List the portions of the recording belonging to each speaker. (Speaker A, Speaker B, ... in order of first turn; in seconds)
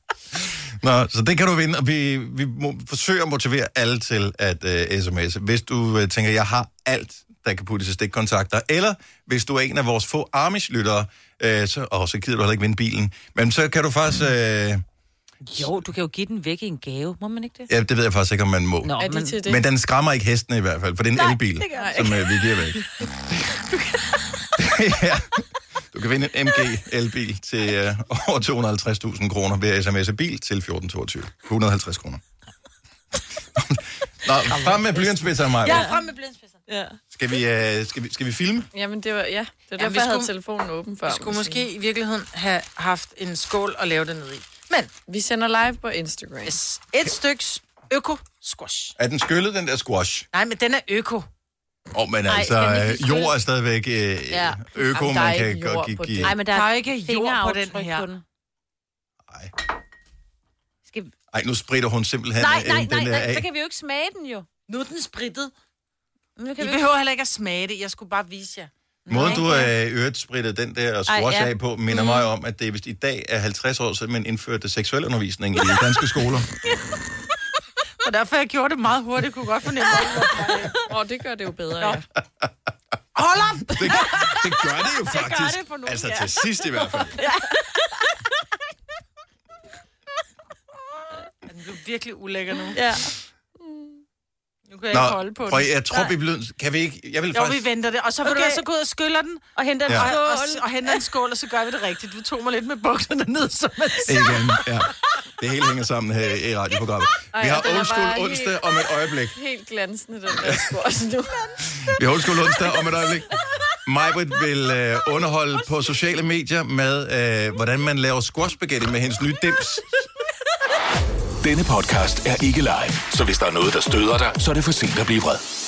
Speaker A: 0.8-14.8, 17.7-22.9, 24.6-32.2, 33.5-35.9, 37.1-38.7, 49.0-50.3, 51.9-56.3, 59.3-59.5, 61.3-63.5, 69.1-76.5, 83.8-87.2, 94.9-97.6, 99.9-100.1, 104.1-109.3, 110.4-110.7, 111.7-113.3, 113.8-120.0
Speaker B: 15.4-17.7, 18.8-19.4, 21.1-22.2, 35.7-35.9, 52.3-53.3, 54.3-54.7, 56.2-58.2, 60.9-61.1, 62.4-64.5, 66.4-66.8, 69.1-69.6, 71.1-72.2, 92.7-93.1, 98.2-98.6, 99.5-100.7
Speaker C: 19.0-19.6, 21.7-22.2, 38.7-41.6, 45.1-46.6, 54.9-56.4, 80.8-82.0, 93.6-94.0, 107.4-108.5, 109.3-111.5
Speaker D: 34.7-35.1, 35.6-36.6, 39.8-40.3, 41.0-44.9, 46.4-49.0, 50.3-51.3, 56.5-58.1, 64.7-65.5, 66.6-69.7, 78.0-80.9, 83.2-84.4, 85.0-86.4, 91.5-92.8, 94.7-96.1, 97.3-104.4
Speaker E: 121.4-125.4